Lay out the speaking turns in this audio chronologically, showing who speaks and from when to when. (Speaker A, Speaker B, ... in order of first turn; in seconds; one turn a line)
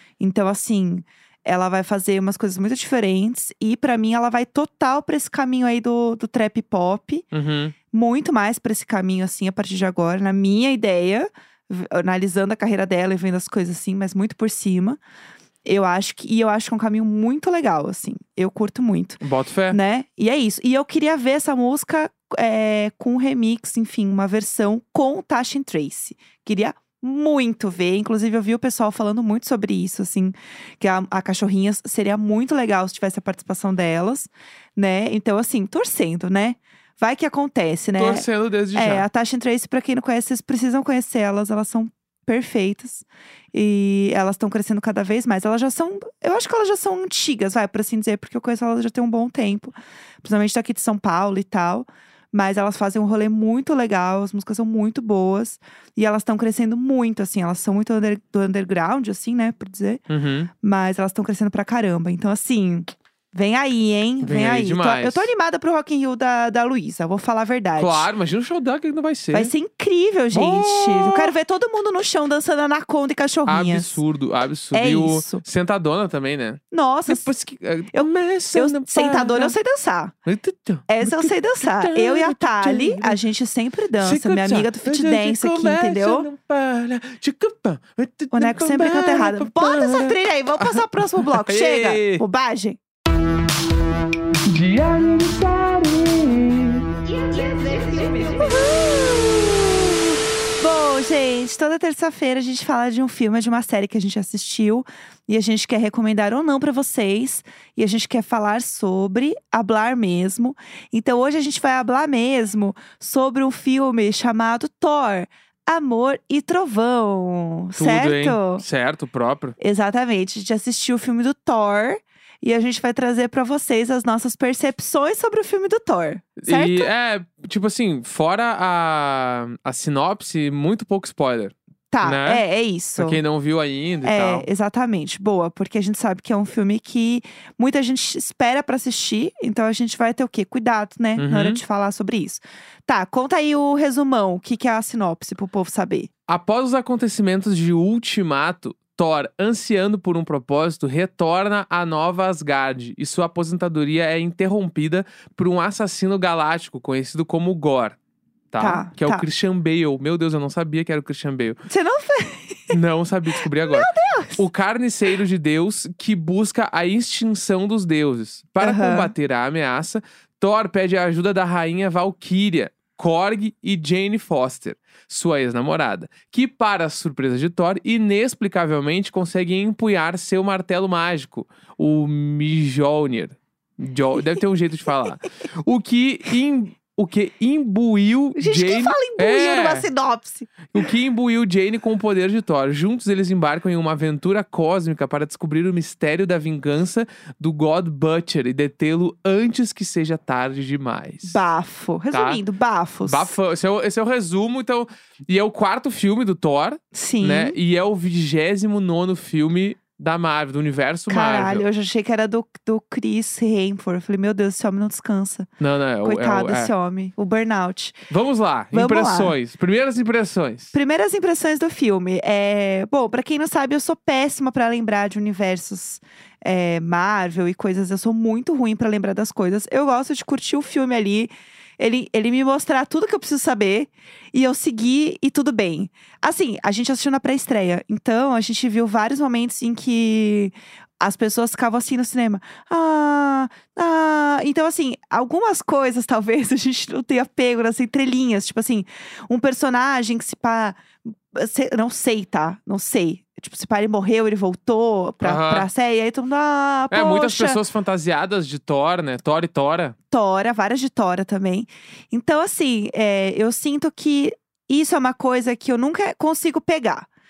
Speaker A: 0.2-7.2
Speaker B: 7.3-7.7
Speaker A: 7.9-15.0
Speaker A: 15.6-60.0
Speaker B: 19.2-19.8
Speaker B: 38.0-39.0
Speaker B: 60.1-60.5
Speaker A: 60.6-68.1
Speaker B: 64.2-65.3
Speaker B: 67.8-69.5
Speaker A: 69.3-74.0
Speaker B: 70.3-71.3
Speaker B: 73.5-79.5
Speaker A: 74.7-75.4
Speaker A: 76.7-77.3
Speaker A: 77.9-80.1
Speaker B: 80.2-83.2
Speaker A: 80.9-86.3
Speaker B: 84.0-92.2
Speaker A: 88.3-92.8
Speaker B: 94.4-96.9
Speaker A: 97.0-98.9
Speaker B: 98.3-99.5
Speaker A: 100.6-118.6
Speaker B: 117.8-119.5
Speaker A: 119.6-126.9
Speaker B: 126.4-132.4
Speaker A: 131.9-133.2
Speaker B: 133.0-134.5
Speaker A: 134.0-146.1
Speaker B: 141.2-141.6
Speaker B: 146.3-157.9
Speaker B: 158.5-161.6
Speaker A: 158.6-159.2
Speaker A: 161.7-162.8
Speaker B: 162.7-189.9
Speaker A: 163.6-164.4
Speaker A: 168.6-169.1
Speaker A: 188.3-190.7
Speaker B: 190.7-201.4
Speaker A: 201.2-203.3
Speaker B: 202.1-202.4
Speaker B: 203.0-211.6
Speaker A: 206.9-207.6
Speaker A: 211.1-215.5
Speaker B: 215.6-216.7
Speaker A: 216.0-218.0
Speaker B: 218.1-220.7
Speaker A: 218.7-219.3
Speaker A: 220.7-257.6
Speaker B: 255.2-255.7
Speaker B: 256.9-259.9
Speaker A: 260.1-267.1